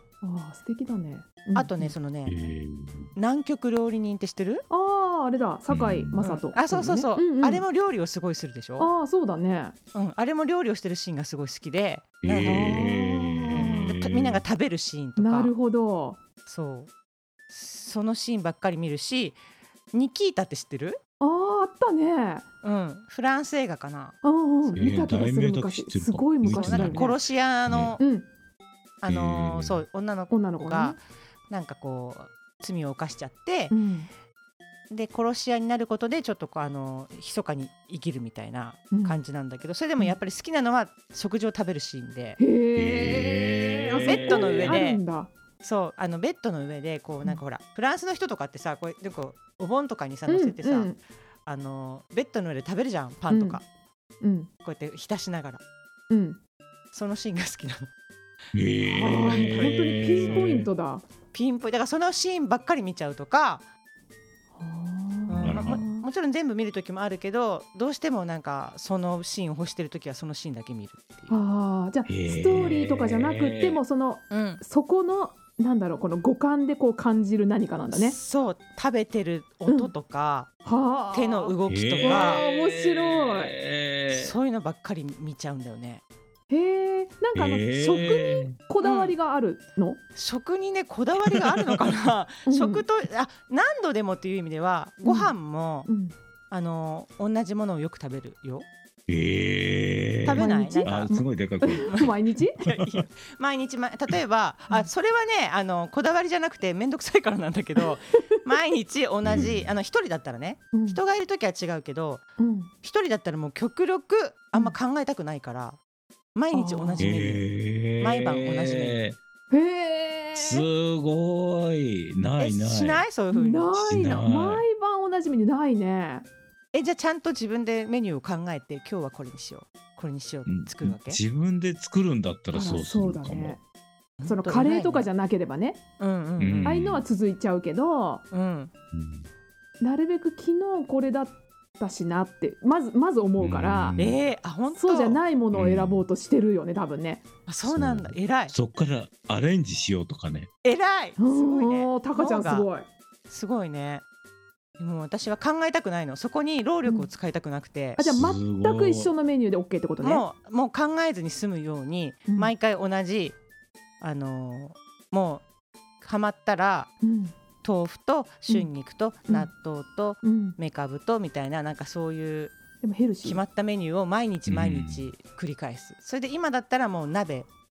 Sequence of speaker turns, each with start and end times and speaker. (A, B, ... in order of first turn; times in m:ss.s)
0:00.2-0:01.9 A
0:01.6-0:02.4 B
0:02.3-0:03.1 C
0:03.2-0:04.6 B
0:04.7-0:07.6 A
0:05.7-0:06.2 C
0:06.2-0:08.9 B
0:08.8-0:09.8 A
0:09.9-0:12.9 B
0:12.2-0:14.4 C
0:12.4-0:14.0 A
0:13.9-0:15.5 B
0:15.2-0:16.2 A
0:16.5-0:16.9 B
0:17.5-0:19.4 B
0:19.9-0:21.0 B
0:21.2-0:22.4 A
0:22.6-0:24.9 B
0:24.2-0:27.2 A
0:24.8-0:28.0 C
0:26.5-0:28.0 B
0:28.0-0:28.3 A
0:29.0-0:33.8 B
0:29.1-0:29.8 C
0:30.3-0:31.0 A
0:33.7-0:34.1 A
0:34.9-0:42.4 B
0:38.9-0:39.2 A
0:42.4-0:45.3 A
0:42.8-0:44.8 C
0:43.9-0:45.0 B
0:45.6-0:50.9 B
0:50.3-0:51.0 A
0:51.5-0:53.6 B
0:53.3-0:53.6 A
0:54.2-0:54.5 A
0:54.6-0:55.6 B
0:56.1-0:56.4 A
0:56.9-0:57.9 B
0:58.5-1:00.7 C
0:58.8-1:01.0 A
0:59.1-1:00.4 B
1:01.3-1:03.6 B
1:04.6-1:06.0 A
1:05.3-1:11.4 B
1:05.4-1:05.8 C
1:11.3-1:18.2 A
1:12.1-1:13.8 C
1:14.3-1:14.6 B
1:17.9-1:20.5 B
1:20.6-1:23.5 A
1:21.1-1:22.4 B
1:21.7-1:24.3 C
1:24.1-1:26.0 B
1:26.5-1:30.0 A
1:27.4-1:28.6 C
1:28.8-1:29.2 B
1:30.2-1:35.9 B
1:31.2-1:31.9 C
1:32.5-1:32.8 A
1:35.0-1:35.3 A
1:35.9-1:36.1 A
1:36.5-1:38.7 B
1:39.1-1:43.0 C
1:40.2-1:41.1 B
1:40.4-1:42.6 A
1:41.9-1:52.3 B
1:49.2-1:49.7 C
1:50.7-1:51.0 A
1:52.4-1:52.7 A
1:52.8-1:55.8 B
1:56.4-1:59.0 B
1:56.5-1:57.2 A
1:57.0-1:59.2 C
1:59.5-2:00.7 A
2:00.4-2:03.1 C
2:02.4-2:03.7 B
2:03.3-2:06.3 A
2:03.7-2:04.6 C
2:06.7-2:11.2 B
2:10.5-2:13.6 C
2:12.5-2:13.6 A
2:14.2-2:15.1 B
2:14.3-2:15.8 A
2:16.0-2:16.8 B
2:16.4-2:17.1 C
2:16.6-2:18.2 A
2:18.3-2:18.7 B
2:18.9-2:19.3 C
2:19.8-2:24.0 A
2:23.4-2:24.2 C
2:24.0-2:25.2 B
2:24.7-2:27.3 A
2:25.5-2:26.0 C
2:27.5-2:28.5 B
2:27.6-2:30.5 C
2:30.6-2:32.7 B
2:31.2-2:32.9 A
2:33.3-2:34.0 B
2:34.8-2:38.0 B
2:38.0-2:40.2 A
2:38.0-2:39.1 C
2:40.0-2:43.4 B
2:44.0-2:45.4 B
2:46.0-2:46.9 B
2:47.0-2:47.3 A
2:47.6-2:52.6 B
2:50.2-2:50.6 A
2:52.8-2:53.4 A
2:53.2-2:57.5 B
2:54.5-2:55.1 C